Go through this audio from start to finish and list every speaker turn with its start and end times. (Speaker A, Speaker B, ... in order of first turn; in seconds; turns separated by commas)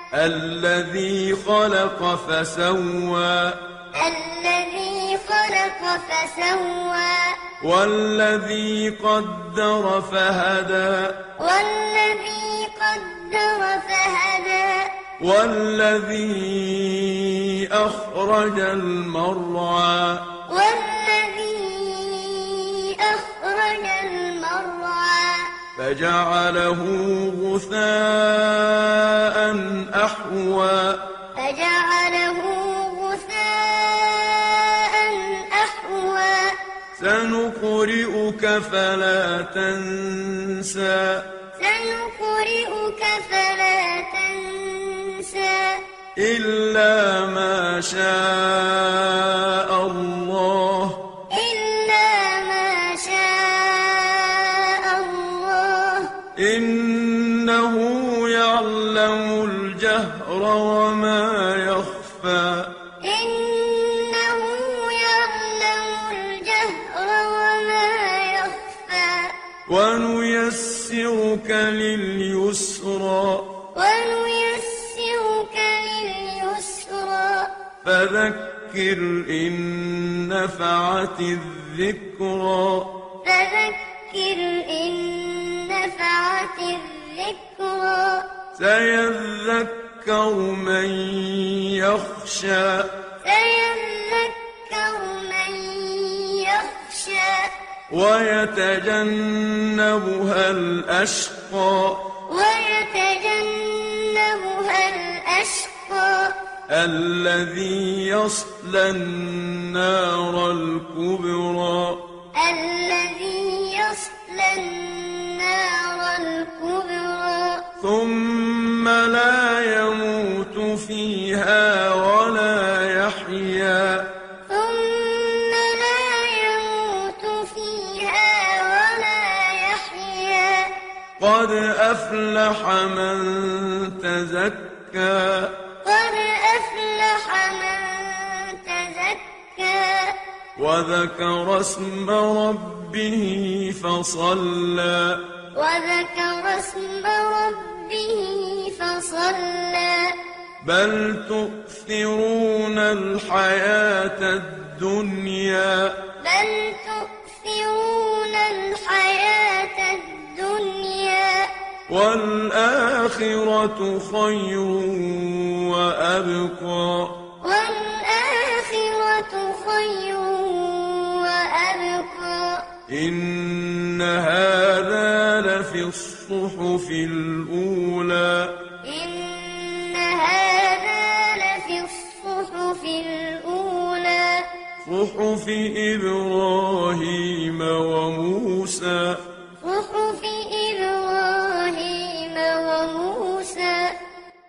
Speaker A: 0.1-3.6, Speaker B: 3.9-7.4, Speaker A: 7.6-11.3, Speaker B: 11.4-15.0, Speaker A: 15.2-20.3, Speaker B: 20.5-25.5, Speaker A: 25.8-31.1, Speaker B: 31.3-36.6, Speaker A: 37.0-41.3, Speaker B: 41.6-45.8, Speaker A: 46.1-51.1, Speaker B: 51.3-56.2, Speaker A: 56.4-62.7, Speaker B: 63.0-69.3, Speaker A: 69.7-73.5, Speaker B: 73.7-77.5, Speaker A: 77.8-83.0, Speaker B: 83.2-88.3, Speaker A: 88.5-93.0, Speaker B: 93.2-97.5, Speaker A: 97.9-102.1, Speaker B: 102.3-106.4, Speaker A: 106.7-112.1, Speaker B: 112.3-117.7, Speaker A: 117.8-124.1, Speaker B: 124.5-130.8, Speaker A: 131.2-135.6, Speaker B: 135.8-140.2, Speaker A: 140.6-145.3, Speaker B: 145.5-150.2, Speaker A: 150.6-156.1, Speaker B: 156.2-161.5, Speaker A: 161.9-167.2, Speaker B: 167.4-172.7, Speaker A: 172.9-178.6, Speaker B: 178.8-184.5, Speaker A: 184.8-189.2, Speaker B: 189.6-194.0